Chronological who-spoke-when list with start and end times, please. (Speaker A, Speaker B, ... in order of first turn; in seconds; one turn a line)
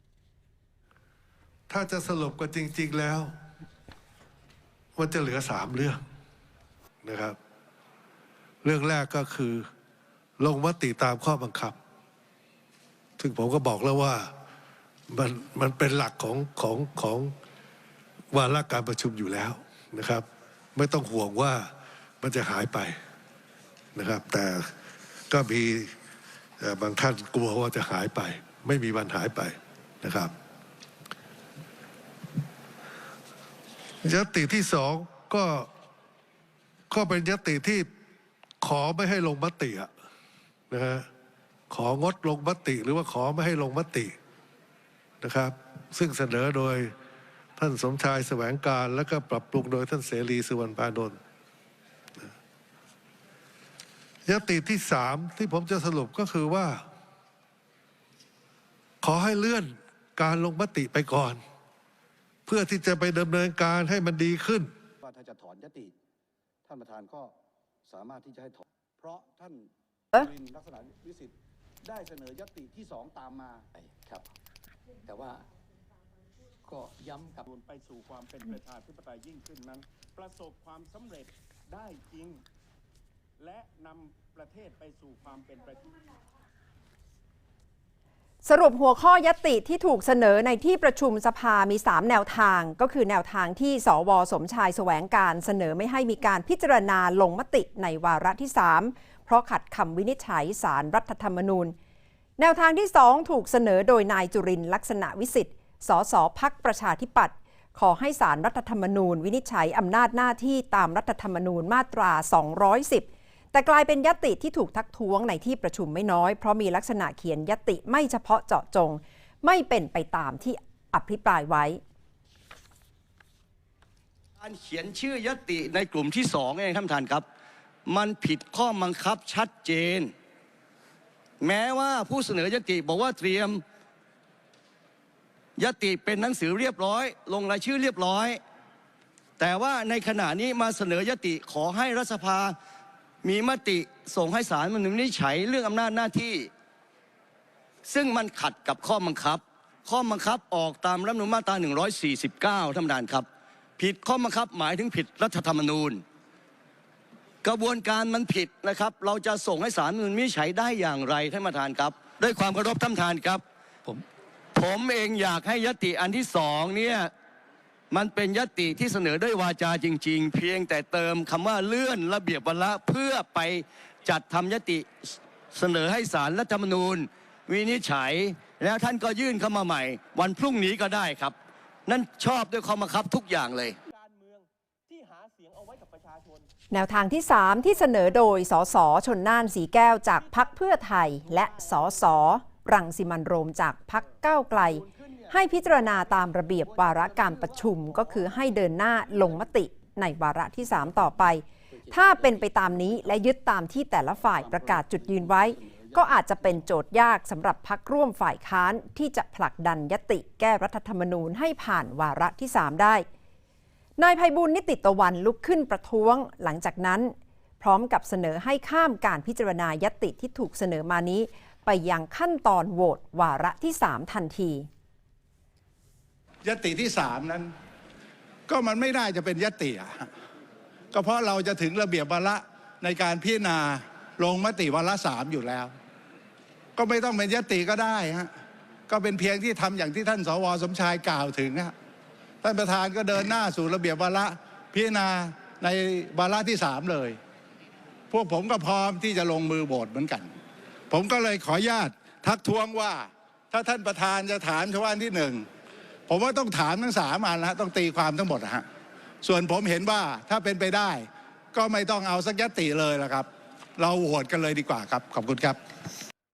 Speaker A: 1.7-3.3
Speaker A: 5.0-6.0
Speaker A: 7.0-7.4
Speaker A: 8.6-9.7
Speaker A: 10.4-11.8
Speaker A: 13.2-14.3
Speaker A: 15.1-17.4
Speaker A: 18.3-21.7
Speaker A: 22.2-23.0
Speaker A: 23.9-24.7
Speaker A: 25.3-25.9
Speaker A: 26.6-30.3
Speaker A: 34.0-35.7
Speaker A: 36.9-37.9
Speaker A: 38.6-39.9
Speaker A: 40.7-41.1
Speaker A: 41.7-44.1
Speaker A: 45.2-46.9
Speaker A: 47.6-51.2
Speaker A: 54.2-56.9
Speaker A: 59.0-61.4
Speaker A: 62.5-64.7
Speaker B: 65.0-65.9
Speaker B: 66.7-67.3
Speaker B: 67.9-74.2
Speaker B: 75.1-75.5
Speaker B: 76.7-77.5
Speaker C: 77.5-82.4
Speaker C: 83.4-86.0
Speaker D: 88.4-101.8
Speaker D: 102.4-121.8
Speaker E: 124.4-127.2
Speaker E: 127.9-130.1
Speaker E: 131.4-133.6
Speaker E: 135.6-138.4
Speaker E: 139.4-142.5
Speaker E: 143.2-146.5
Speaker E: 147.9-153.3
Speaker E: 153.8-156.0
Speaker E: 157.4-164.0
Speaker E: 164.6-167.1
Speaker E: 167.9-181.3
Speaker E: 181.9-183.8
Speaker C: 183.9-186.5
Speaker D: 186.7-213.1
Speaker B: 194.8-195.3
Speaker B: 196.6-197.8
Speaker B: 201.9-202.6
Speaker B: 204.6-206.3
Speaker D: 214.0-224.7
Speaker F: 226.4-227.5
Speaker F: 228.5-230.1
Speaker F: 230.9-235.7
Speaker F: 236.8-238.3
Speaker F: 238.9-241.7
Speaker F: 242.4-247.2
Speaker F: 248.1-250.3
Speaker F: 250.9-255.4
Speaker F: 256.1-258.7
Speaker F: 259.2-265.6